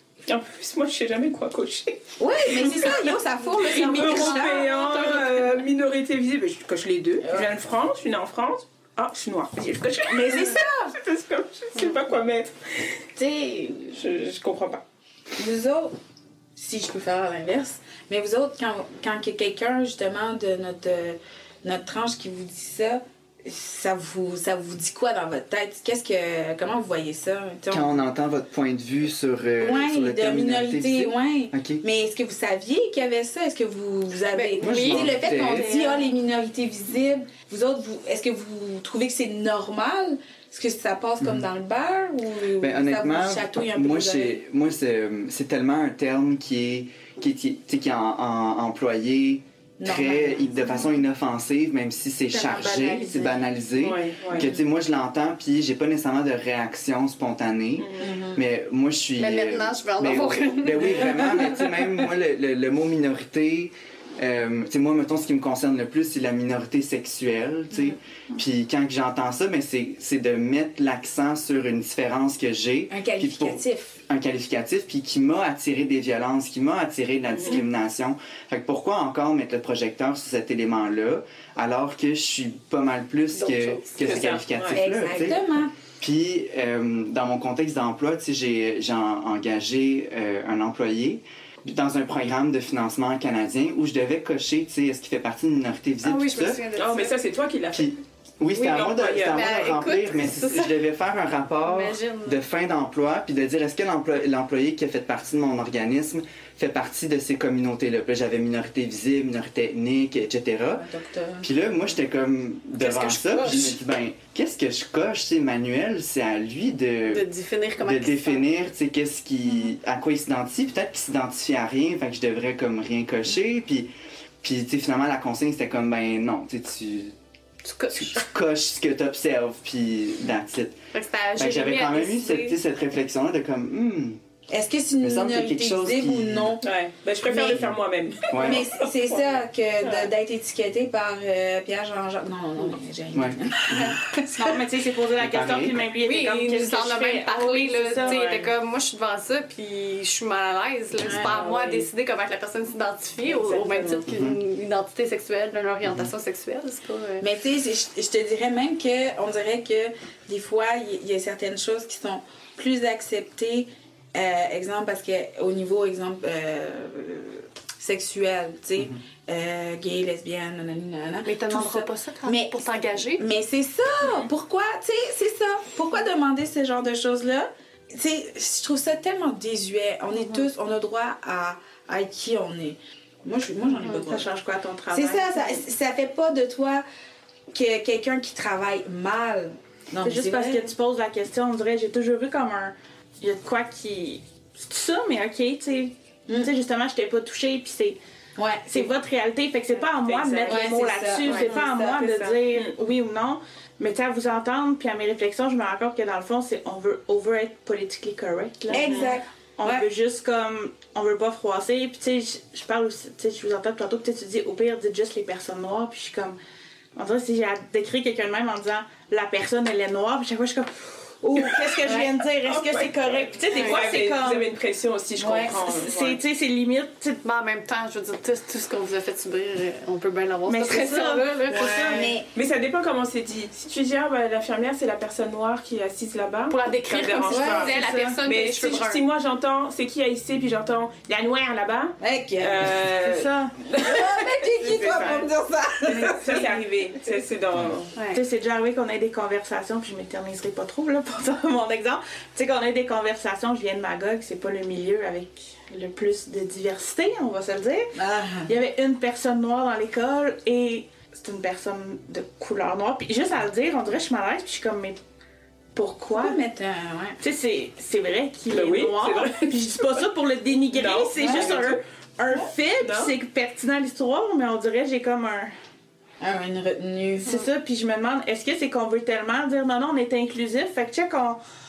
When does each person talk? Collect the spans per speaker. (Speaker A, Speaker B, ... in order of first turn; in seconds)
Speaker A: 0.2-12.9, 13.9-14.8, 53.8-54.5, 57.8-58.1, 84.0-84.8, 96.7-98.0, 98.5-99.5, 136.6-140.1, 148.0-148.4, 151.2-151.8, 153.2-154.1, 199.9-201.5, 208.8-209.1, 221.4-226.2, 230.5-245.3, 245.9-247.9, 268.5-269.8, 270.7-271.8, 272.8-273.1
Speaker B: 2.2-4.7, 7.2-7.5, 10.1-10.9, 13.2-14.1, 15.4-15.9, 16.6-28.0, 29.6-44.4, 49.8-51.0, 52.3-53.4, 58.0-58.4, 72.9-74.0, 84.7-85.7, 110.7-111.5, 134.5-136.7, 137.2-137.7, 138.3-144.6, 151.0-151.4, 157.2-184.3, 184.9-186.8, 187.5-190.7, 198.4-198.9, 200.4-202.4, 208.7-209.8, 225.2-225.8, 231.7-232.3, 237.3-237.8, 242.0-242.9, 243.7-246.5, 257.9-258.5, 266.1-267.2, 271.2-271.5, 276.2-277.4
Speaker C: 3.8-5.7, 34.4-36.0, 59.1-61.4, 83.3-84.4, 96.0-97.2, 99.3-100.8, 101.6-102.4, 112.8-113.8, 117.0-118.4, 127.6-128.2, 130.9-132.6, 146.0-157.3, 171.2-173.2, 223.6-224.0, 227.2-231.9, 236.5-239.0, 247.9-248.2
Speaker D: 27.7-31.8, 34.6-35.9, 42.6-85.4, 86.0-96.6, 97.7-110.8, 111.4-117.3, 117.8-123.9, 124.4-127.1, 127.9-130.8, 131.3-134.2, 135.0-136.6, 138.3-138.6, 143.1-144.0, 145.2-145.8, 154.1-154.4, 155.8-156.1
Speaker E: 144.3-148.4, 183.8-185.6, 190.0-198.0, 198.7-216.3, 216.9-224.5, 225.8-227.2, 230.6-232.1, 237.7-238.1, 243.0-243.6, 246.1-246.8, 248.1-257.9, 258.4-265.0, 265.7-266.4, 267.2-275.5, 277.2-281.4